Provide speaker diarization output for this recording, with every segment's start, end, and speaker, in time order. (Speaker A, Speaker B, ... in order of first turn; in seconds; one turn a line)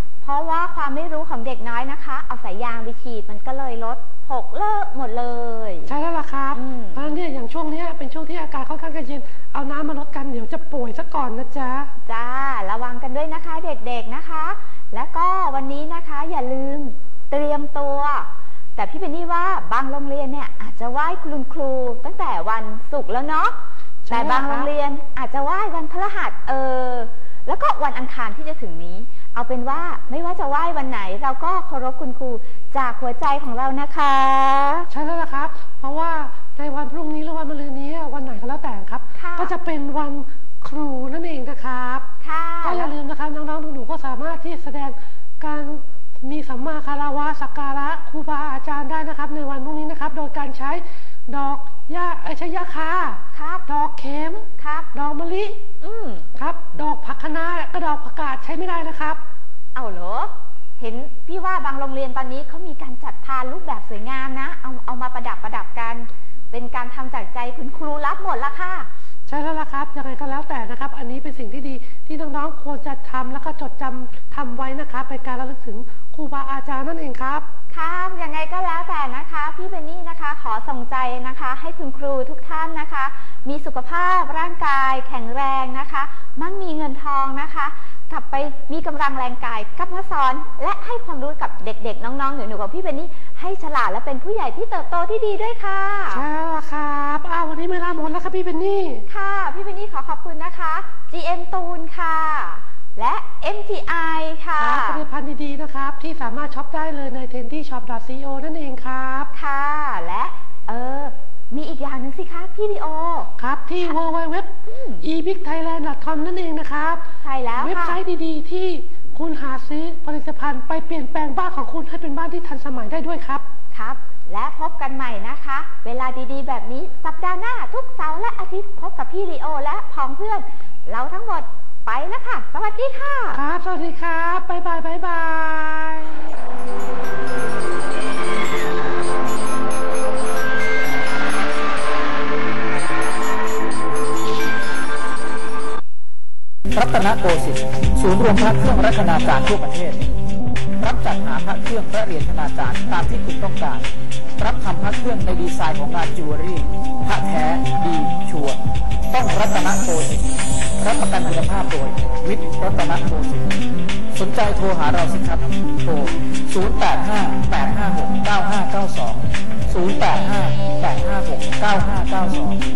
Speaker A: 0.2-5.9
Speaker B: 5.9-11.9
Speaker A: 6.5-7.1
Speaker A: 12.1-23.6
Speaker B: 24.1-24.7
Speaker A: 24.1-34.9
Speaker B: 34.9-42.1
Speaker A: 39.1-39.5
Speaker A: 42.2-42.9
Speaker B: 42.6-55.6
Speaker A: 53.3-53.6
Speaker A: 54.6-54.9
Speaker A: 55.8-56.3
Speaker B: 56.4-59.2
Speaker A: 59.8-68.9
Speaker B: 69.3-77.5
Speaker A: 77.7-96.2
Speaker B: 96.1-99.0
Speaker A: 99.1-105.0
Speaker B: 104.6-109.3
Speaker A: 109.3-113.3
Speaker B: 113.4-117.0
Speaker A: 114.7-115.0
Speaker A: 117.2-118.0
Speaker B: 117.6-123.5
Speaker A: 123.7-133.4
Speaker B: 133.3-136.3
Speaker C: 146.7-150.1
Speaker C: 150.8-153.9
Speaker C: 154.4-158.6
Speaker C: 159.1-160.3
Speaker C: 160.8-163.6
Speaker C: 164.1-172.6